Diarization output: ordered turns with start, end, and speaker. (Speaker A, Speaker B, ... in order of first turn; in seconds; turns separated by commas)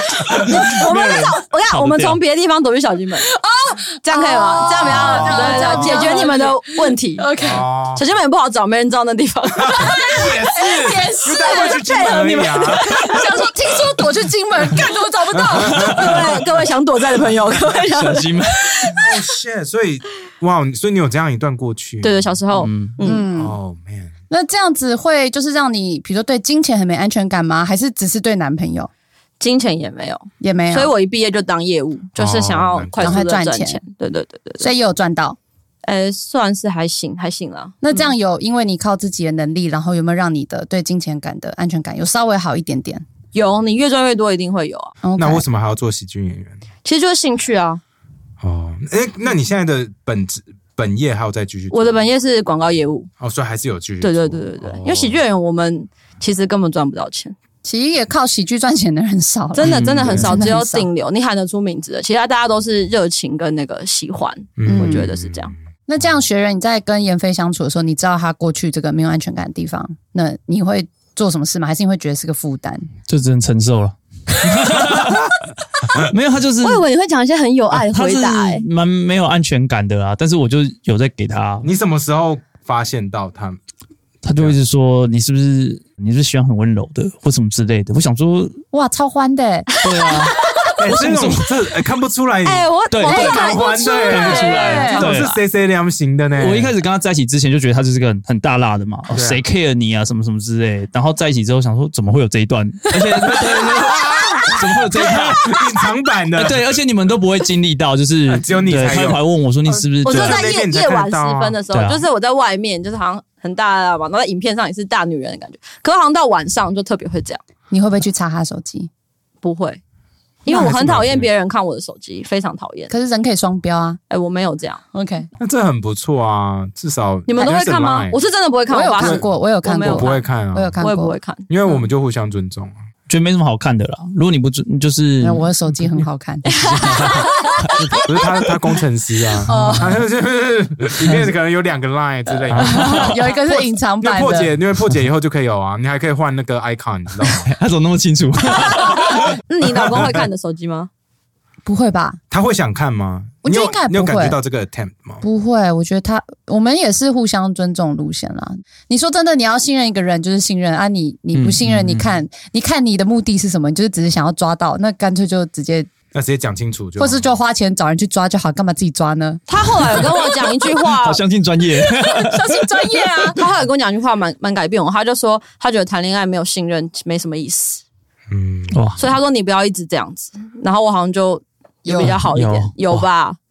Speaker A: 0.2-1.2, Speaker B: 0.2-2.2, Speaker C: 0.4-3.3, Speaker D: 3.2-7.6, Speaker C: 4.0-7.3, Speaker A: 4.8-6.2, Speaker A: 7.4-8.0, Speaker C: 7.9-10.3, Speaker A: 9.6-12.8, Speaker D: 9.8-11.8, Speaker C: 11.2-13.3, Speaker D: 12.9-16.1, Speaker A: 15.3-16.3, Speaker C: 15.8-18.4, Speaker B: 15.8-16.1, Speaker B: 17.8-19.0, Speaker A: 19.0-22.4, Speaker C: 22.0-23.2, Speaker B: 22.5-22.9, Speaker D: 23.0-23.6, Speaker A: 23.3-24.1, Speaker D: 24.3-28.9, Speaker C: 29.4-34.7, Speaker D: 30.4-30.9, Speaker A: 32.2-33.2, Speaker D: 33.0-33.8, Speaker D: 34.6-35.4, Speaker C: 35.8-38.0, Speaker D: 37.8-43.0, Speaker C: 43.3-45.0, Speaker D: 45.0-45.4, Speaker A: 45.2-46.6, Speaker C: 46.8-47.8, Speaker A: 48.4-52.1, Speaker C: 51.7-53.1, Speaker A: 53.2-55.2, Speaker C: 54.0-57.4, Speaker D: 57.6-60.9, Speaker C: 59.5-65.5, Speaker B: 59.6-60.2, Speaker A: 59.8-60.5, Speaker A: 64.6-65.5, Speaker D: 64.7-65.1, Speaker D: 65.9-72.9, Speaker B: 73.1-75.3, Speaker A: 74.8-75.1, Speaker B: 75.9-76.8, Speaker C: 76.6-78.6, Speaker B: 77.8-81.7, Speaker A: 81.6-83.6, Speaker B: 84.2-88.6, Speaker D: 88.7-89.7, Speaker B: 89.8-91.5, Speaker C: 90.0-90.8, Speaker A: 90.8-96.7, Speaker C: 92.4-95.4, Speaker B: 92.9-93.4, Speaker B: 94.1-95.3, Speaker D: 94.1-95.0, Speaker B: 96.4-105.5, Speaker A: 99.1-99.4, Speaker A: 103.2-106.8, Speaker B: 106.4-110.5, Speaker A: 108.3-109.2, Speaker C: 109.7-117.4, Speaker A: 110.0-111.6, Speaker B: 111.7-112.0, Speaker D: 117.7-118.9, Speaker C: 119.4-119.8, Speaker C: 120.5-122.9, Speaker A: 120.5-121.3, Speaker D: 122.9-124.0, Speaker C: 124.1-124.8, Speaker D: 124.9-125.3, Speaker A: 125.4-128.2, Speaker C: 127.3-130.2, Speaker D: 128.7-131.1, Speaker A: 129.0-129.2, Speaker A: 129.8-130.8, Speaker C: 130.8-131.5, Speaker A: 131.5-132.7, Speaker B: 133.1-135.5, Speaker D: 135.2-136.5, Speaker C: 136.4-138.0, Speaker B: 136.6-138.0, Speaker A: 138.0-147.5, Speaker D: 139.5-140.0, Speaker B: 141.0-141.3, Speaker B: 142.5-143.2, Speaker D: 142.6-144.5, Speaker B: 147.2-150.3, Speaker C: 148.5-150.9, Speaker D: 151.6-152.2, Speaker A: 152.3-155.2, Speaker D: 153.4-154.4, Speaker D: 155.2-165.9, Speaker B: 161.3-162.2, Speaker A: 166.1-167.3, Speaker D: 167.0-169.4, Speaker C: 169.5-171.2, Speaker B: 170.9-172.6, Speaker D: 171.8-173.4, Speaker C: 173.3-177.8, Speaker A: 178.3-179.0, Speaker B: 178.7-179.1, Speaker C: 179.0-183.4, Speaker D: 181.8-182.2, Speaker B: 181.9-183.1